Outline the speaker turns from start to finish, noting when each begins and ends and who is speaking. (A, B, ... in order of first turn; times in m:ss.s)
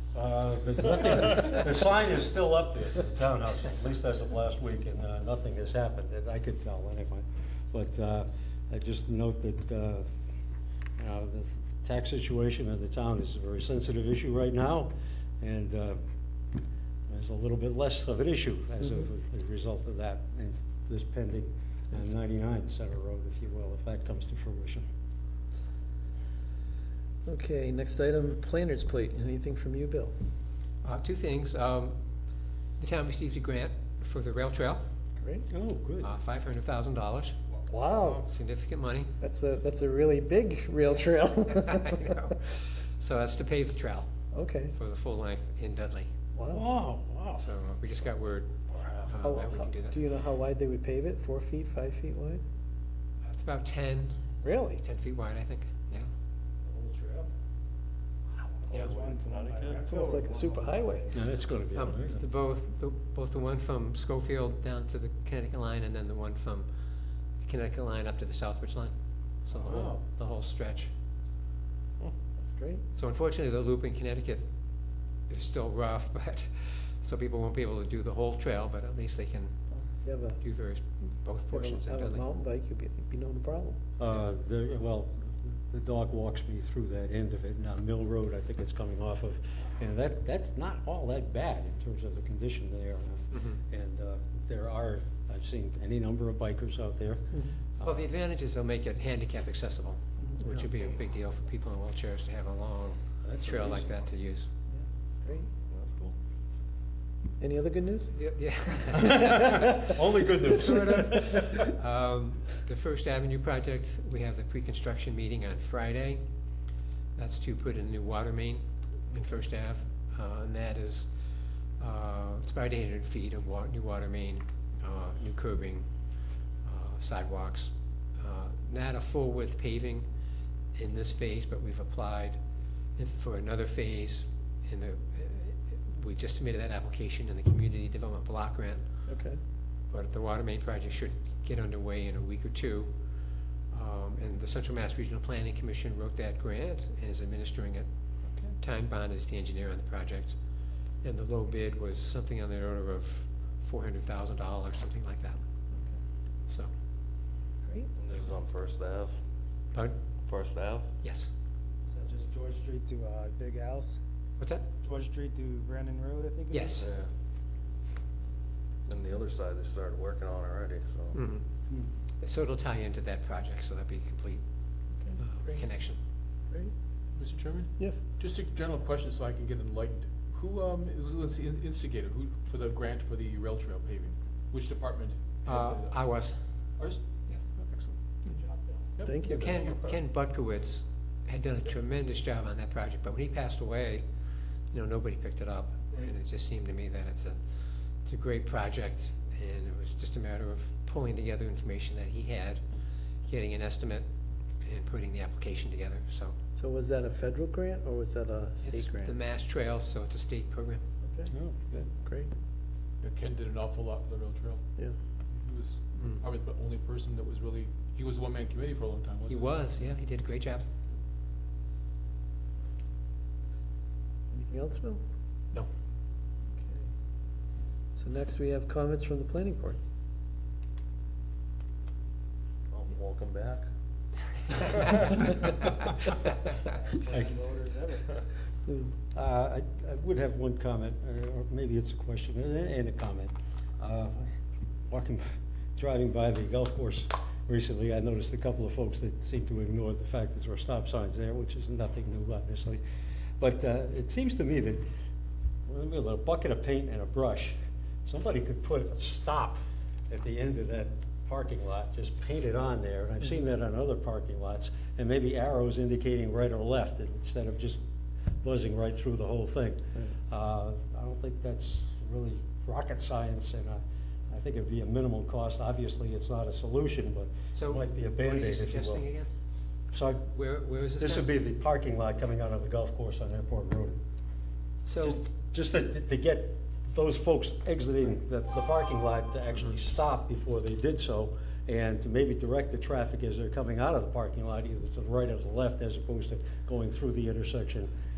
0:00.1-0:10.1 A
0:11.0-0:16.0 A
0:17.1-0:24.8 A
0:27.3-0:30.2 B
0:30.8-0:32.0 C
0:32.8-0:34.8 C
0:35.2-0:35.5 B
0:35.5-0:36.1 A
0:36.0-0:37.3 C
0:37.7-0:38.3 B
0:38.0-0:39.1 C
0:39.2-0:42.0 B
0:41.6-0:44.1 C
0:44.3-0:44.8 B
0:44.7-0:46.1 C
0:46.3-0:46.7 B
0:46.5-0:47.4 A
0:47.3-0:50.0 C
0:49.2-0:52.4 B
0:53.2-0:54.2 C
0:54.4-0:54.8 B
0:54.8-0:56.1 C
0:56.7-0:57.3 D
0:58.6-1:01.2 D
0:58.7-0:59.0 C
0:58.7-0:59.8 E
0:59.8-1:01.1 B
1:01.1-1:02.2 A
1:01.8-1:06.7 C
1:07.4-1:08.9 C
1:09.4-1:10.9 C
1:12.4-1:12.8 B
1:12.9-1:14.4 C
1:15.3-1:19.6 C
1:20.0-1:20.4 B
1:20.4-1:22.2 C
1:21.5-1:23.8 B
1:24.0-1:38.1 A
1:33.3-1:33.6 C
1:37.8-1:44.5 C
1:40.3-1:40.6 B
1:43.2-1:43.9 E
1:44.7-1:45.5 B
1:45.7-1:46.1 E
1:47.4-1:48.1 B
1:48.1-1:49.9 C
1:49.1-1:51.2 A
1:50.4-1:56.2 C
1:57.2-2:01.1 C
2:01.8-2:05.9 C
2:06.6-2:10.0 C
2:10.7-2:12.4 C
2:13.0-2:18.9 C
2:19.1-2:19.4 B
2:19.9-2:22.9 C
2:23.7-2:27.9 C
2:28.6-2:30.4 C
2:31.0-2:35.4 C
2:37.6-2:37.9 B
2:38.0-2:39.1 E
2:40.3-2:40.9 E
2:41.0-2:41.3 C
2:41.8-2:44.0 D
2:44.4-2:44.7 C
2:44.8-2:46.9 D
2:46.5-2:46.8 C
2:48.9-2:51.2 E
2:51.1-2:51.4 C
2:52.2-2:54.4 C
2:55.0-2:55.7 B
2:55.2-2:56.0 C
2:57.2-3:06.0 F
2:57.8-2:58.0 B
3:05.4-3:06.4 C
3:07.5-3:08.0 F
3:09.0-3:09.9 F
3:09.0-3:09.5 B
3:09.3-3:14.0 C
3:14.7-3:17.4 C
3:18.0-3:22.6 C
3:23.2-3:24.0 C
3:24.6-3:26.4 C
3:26.5-3:29.1 B
3:28.6-3:30.8 C
3:31.0-3:32.3 B
3:31.3-3:31.6 A
3:33.0-3:34.6 F
3:35.3-3:39.6 F
3:36.0-3:36.2 C
3:39.3-3:40.7 C
3:44.3-3:45.0 B
3:47.9-3:49.8 B
3:52.7-3:53.7 E
3:56.6-3:58.1 D
3:57.1-3:57.4 A
3:58.7-3:58.9 B
3:59.1-4:04.3 A
4:04.9-4:12.8 A
4:13.4-4:14.8 A
4:15.7-4:19.6 A
4:20.1-4:27.8 A
4:28.4-4:39.1 A
4:37.5-4:39.3 C
4:39.9-4:40.3 A
4:40.3-4:41.3 C
4:41.0-4:44.0 A
4:44.8-4:45.2 C
4:45.0-4:57.9 A